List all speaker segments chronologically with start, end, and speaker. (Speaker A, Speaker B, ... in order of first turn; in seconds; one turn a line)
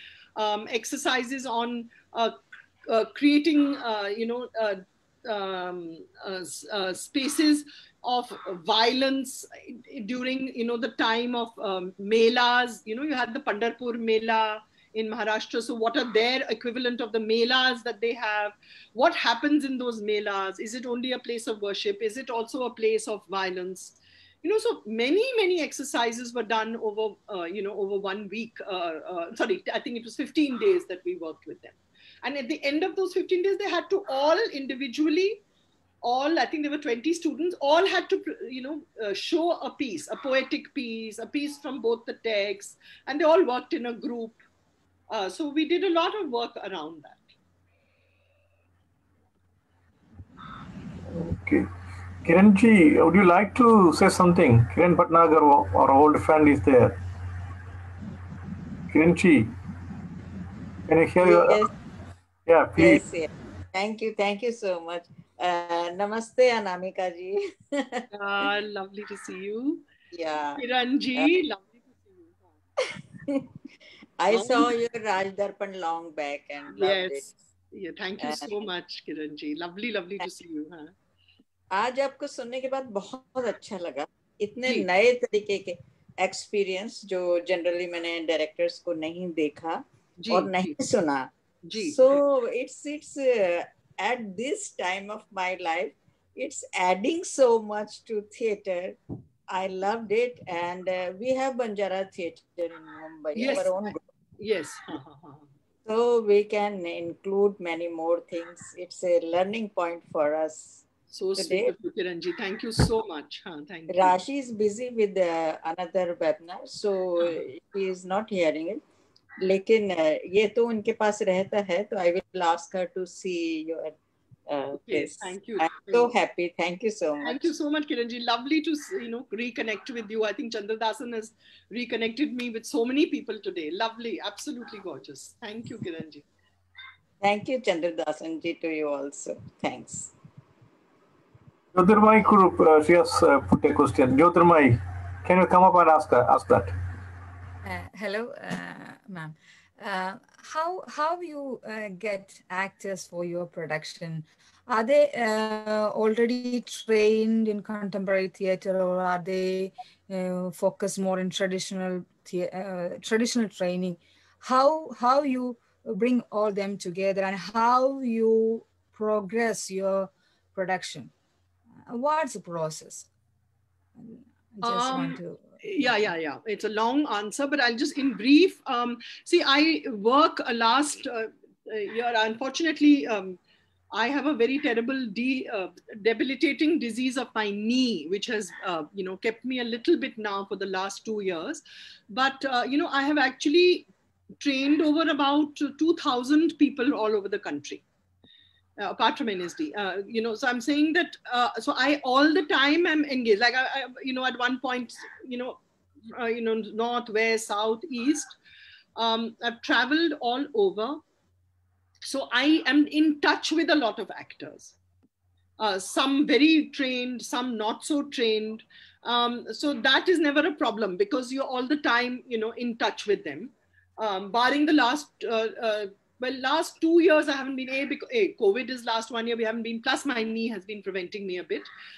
Speaker A: 0.4-35.4
Speaker A: 36.0-44.4
Speaker A: 45.1-47.2
Speaker B: 51.1-51.7
Speaker B: 52.2-57.0
Speaker B: 58.9-59.5
Speaker B: 60.9-61.6
Speaker C: 61.2-61.7
Speaker B: 62.5-63.0
Speaker C: 62.8-68.0
Speaker A: 68.1-69.8
Speaker C: 70.1-70.6
Speaker A: 70.6-72.5
Speaker C: 74.2-77.2
Speaker A: 74.3-74.7
Speaker A: 76.7-80.9
Speaker C: 78.2-78.5
Speaker C: 81.7-99.0
Speaker A: 90.2-90.8
Speaker A: 91.7-92.2
Speaker C: 99.5-104.0
Speaker A: 103.3-105.5
Speaker C: 105.9-111.7
Speaker A: 111.1-114.2
Speaker C: 113.9-118.8
Speaker C: 119.4-124.0
Speaker C: 124.5-127.4
Speaker A: 124.7-126.1
Speaker A: 127.2-136.2
Speaker C: 137.2-140.1
Speaker B: 141.7-146.7
Speaker D: 147.6-171.1
Speaker D: 171.9-173.1
Speaker D: 174.0-176.1
Speaker A: 174.7-183.4
Speaker A: 183.9-193.9
Speaker A: 194.4-197.8
Speaker A: 198.8-208.3
Speaker A: 209.0-211.0
Speaker A: 212.0-214.8
Speaker A: 215.6-231.7